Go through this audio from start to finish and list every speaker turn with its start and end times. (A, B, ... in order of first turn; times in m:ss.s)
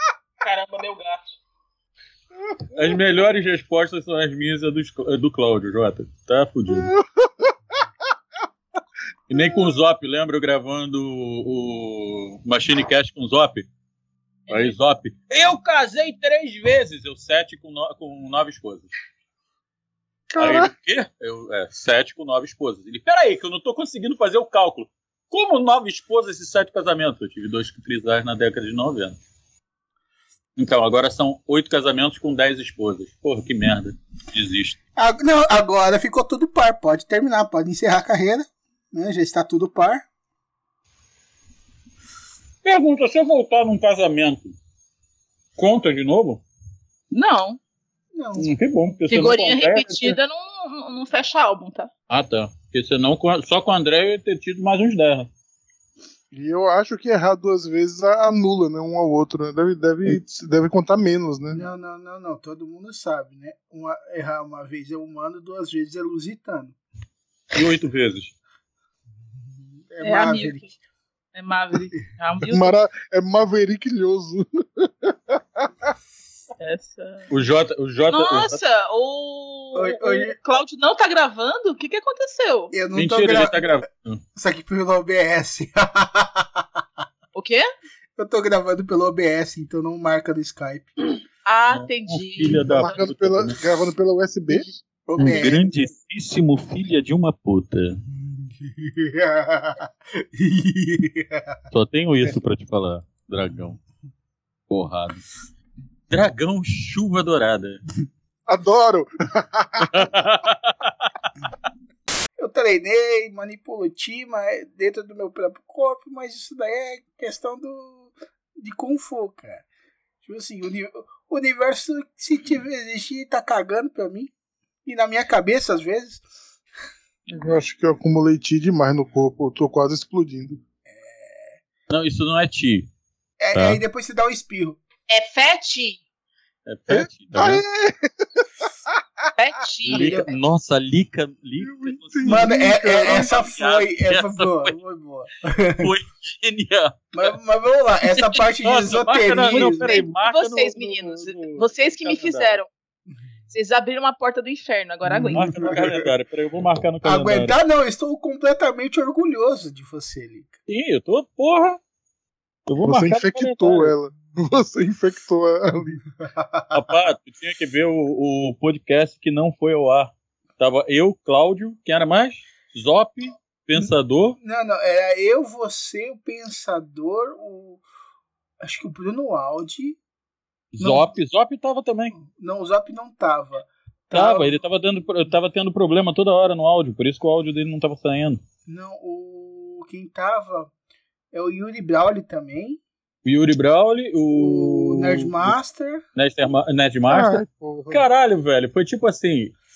0:00.4-0:01.4 A
0:02.8-0:06.9 B
0:06.8-0:07.5 C
0:09.3-0:13.7 B
0:14.5-0:14.8 A
0:14.5-0:18.9 B
0:20.3-0:20.7 C
0:20.4-0:29.2 B
0:30.6-0:34.8 B
0:35.0-0:40.0 D
0:42.6-0:44.6 B
0:45.6-0:46.4 B
0:47.1-0:47.6 A
0:48.1-0:48.5 D
0:48.4-0:50.2 B
0:49.1-0:51.9 A
0:52.1-0:55.3 B
0:56.3-1:01.6 C
1:01.5-1:06.8 D
1:07.5-1:08.3 B
1:09.7-1:10.8 D
1:10.0-1:10.7 A
1:11.3-1:12.8 A
1:12.5-1:15.9 C
1:16.6-1:17.3 A
1:17.3-1:18.6 B
1:18.1-1:22.8 A
1:19.8-1:20.4 D
1:22.7-1:23.8 D
1:22.9-1:24.2 B
1:24.3-1:26.6 D
1:27.4-1:27.6 A
1:28.2-1:30.9 D
1:31.4-1:32.9 A
1:31.7-1:33.6 B
1:32.6-1:35.3 C
1:34.5-1:35.7 D
1:35.2-1:38.0 B
1:38.1-1:41.6 D
1:41.7-1:43.8 B
1:44.7-1:45.3 B
1:46.1-1:47.8 B
1:48.5-1:50.1 C
1:49.9-1:50.9 B
1:52.4-1:59.6 D
2:00.2-2:04.3 D
2:04.8-2:06.2 D
2:07.3-2:10.6 C
2:10.9-2:11.6 D
2:11.9-2:12.9 B
2:13.4-2:14.8 D
2:13.6-2:13.8 B
2:15.1-2:16.0 A
2:16.7-2:17.6 B
2:16.9-2:19.2 C
2:19.4-2:20.0 A
2:19.9-2:24.8 B
2:20.0-2:20.3 D
2:21.6-2:23.5 C
2:22.3-2:25.9 D
2:25.8-2:27.3 B
2:27.1-2:30.0 D
2:28.2-2:32.6 B
2:29.5-2:32.7 A
2:33.5-2:35.7 A
2:35.1-2:36.1 D
2:35.3-2:37.6 B
2:37.0-2:40.5 D
2:40.7-2:41.8 B
2:42.7-2:43.9 B
2:42.8-2:46.0 C
2:46.2-2:46.8 D
2:46.7-2:54.4 B
2:53.8-2:57.8 D
2:58.6-3:00.0 D
3:00.7-3:02.2 B
3:00.8-3:01.1 D
3:02.2-3:04.6 D
3:04.1-3:08.4 B
3:08.7-3:10.7 D
3:11.3-3:12.8 D
3:13.2-3:15.6 B
3:14.4-3:16.0 D
3:16.2-3:19.6 B
3:17.1-3:18.1 C